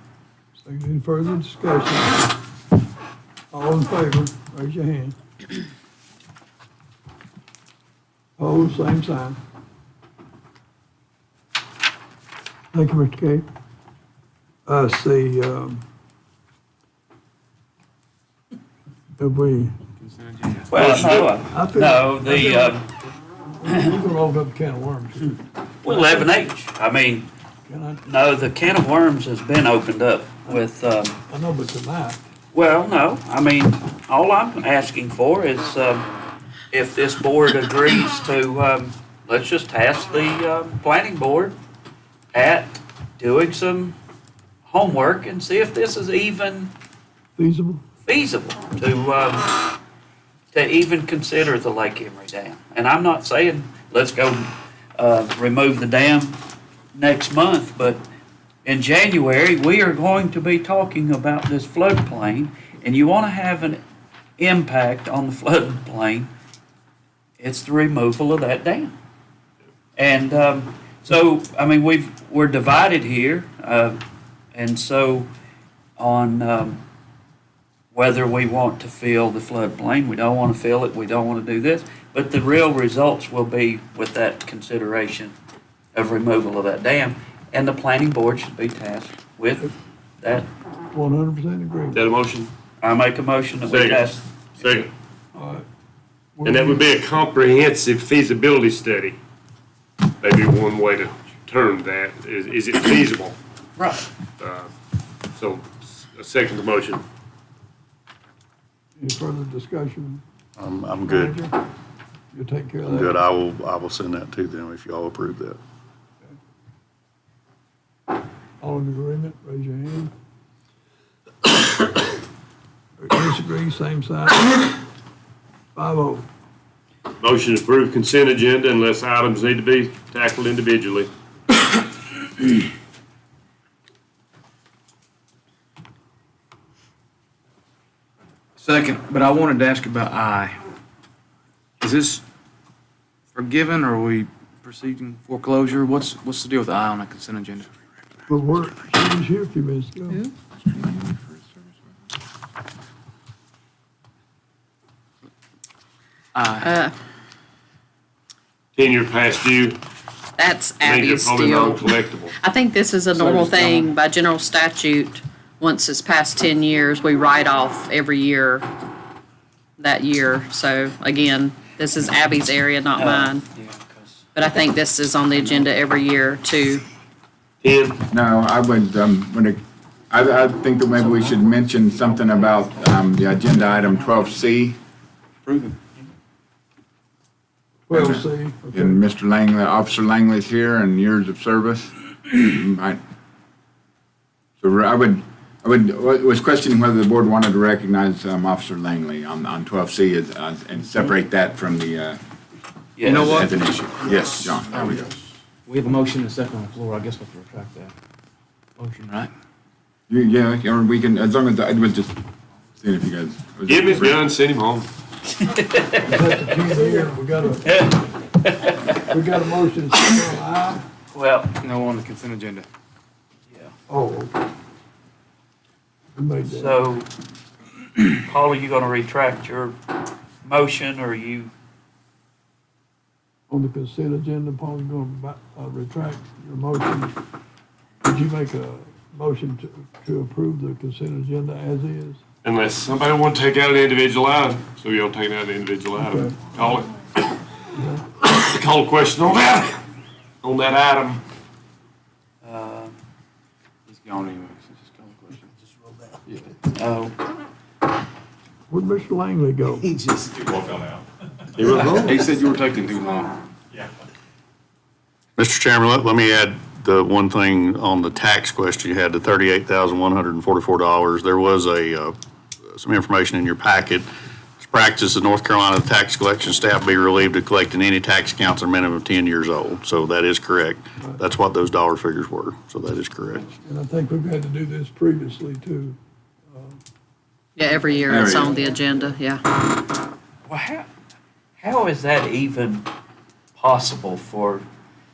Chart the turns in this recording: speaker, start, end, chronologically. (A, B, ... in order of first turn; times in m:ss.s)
0:00.6-0:02.3 A
0:03.5-0:05.2 A
0:08.4-0:09.4 A
0:12.7-0:13.4 A
0:14.6-0:15.8 A
0:19.2-0:19.7 A
0:20.0-0:20.6 B
0:20.7-0:22.8 C
0:20.7-0:21.3 D
0:21.5-0:22.8 A
0:23.6-0:26.4 A
0:25.8-0:27.3 C
0:27.7-0:28.0 A
0:28.0-0:31.2 C
0:31.3-0:32.2 A
0:32.5-0:36.0 C
0:36.7-0:41.5 C
0:42.3-0:44.0 C
0:44.6-0:46.7 C
0:47.4-0:47.8 A
0:48.0-0:49.6 C
0:50.5-0:56.4 C
0:56.9-0:58.0 C
0:58.6-1:03.8 C
1:04.4-1:06.3 C
1:07.4-1:08.9 C
1:10.0-1:14.0 C
1:14.5-1:15.3 C
1:16.0-1:16.8 C
1:17.9-1:25.3 C
1:25.9-1:29.7 C
1:30.2-1:30.5 C
1:30.9-1:32.0 A
1:31.9-1:32.5 D
1:32.8-1:34.2 C
1:33.6-1:34.1 D
1:34.6-1:34.9 D
1:35.3-1:35.6 A
1:36.3-1:36.8 A
1:36.4-1:39.2 D
1:40.2-1:43.4 D
1:44.4-1:44.7 D
1:45.3-1:47.0 D
1:49.0-1:50.2 A
1:50.6-1:51.4 E
1:51.1-1:51.5 A
1:52.3-1:53.2 A
1:52.8-1:55.6 E
1:58.6-2:00.1 A
2:03.0-2:04.7 A
2:05.7-2:06.2 A
2:07.2-2:11.1 D
2:18.6-2:20.6 B
2:21.8-2:22.2 B
2:23.3-2:27.7 B
2:28.3-2:30.2 A
2:30.6-2:31.8 F
2:36.3-2:36.7 B
2:36.6-2:36.9 G
2:38.8-2:39.8 D
2:40.4-2:41.9 G
2:40.8-2:42.3 D
2:42.4-2:48.6 G
2:43.1-2:43.9 B
2:49.8-2:53.4 G
2:52.9-2:54.3 C
2:54.3-2:56.8 G
2:57.6-2:58.0 D
2:58.1-2:59.6 F
3:00.1-3:04.8 F
3:05.4-3:05.8 B
3:07.9-3:09.0 A
3:07.9-3:13.0 F
3:14.6-3:22.2 F
3:23.0-3:23.4 C
3:23.0-3:27.9 B
3:23.0-3:25.1 F
3:28.8-3:29.3 B
3:30.1-3:32.1 F
3:32.8-3:34.2 F
3:33.7-3:34.9 D
3:35.3-3:37.1 C
3:36.0-3:37.8 A
3:37.6-3:39.1 C
3:39.1-3:40.8 A
3:41.1-3:41.5 C
3:41.6-3:42.7 B
3:43.9-3:44.4 A
3:46.2-3:46.8 A
3:46.4-3:47.1 C
3:48.1-3:49.7 C
3:50.4-3:51.5 C
3:53.5-3:57.1 A
3:58.0-4:02.2 A
4:02.4-4:06.9 D
4:06.0-4:06.8 A
4:07.7-4:08.0 A
4:08.2-4:09.8 D
4:10.4-4:11.2 D
4:12.4-4:13.0 C
4:13.9-4:15.5 B
4:16.7-4:17.1 C
4:18.7-4:19.9 A
4:19.8-4:20.5 B
4:21.6-4:22.2 D
4:21.9-4:23.4 B
4:25.4-4:32.1 E
4:32.7-4:34.1 E
4:34.6-4:43.5 E
4:43.6-4:46.8 A
4:47.6-4:49.4 G
4:48.1-4:48.5 F
4:48.4-4:49.1 A
4:50.5-4:50.9 C
4:51.6-4:52.8 C
4:53.5-4:54.6 C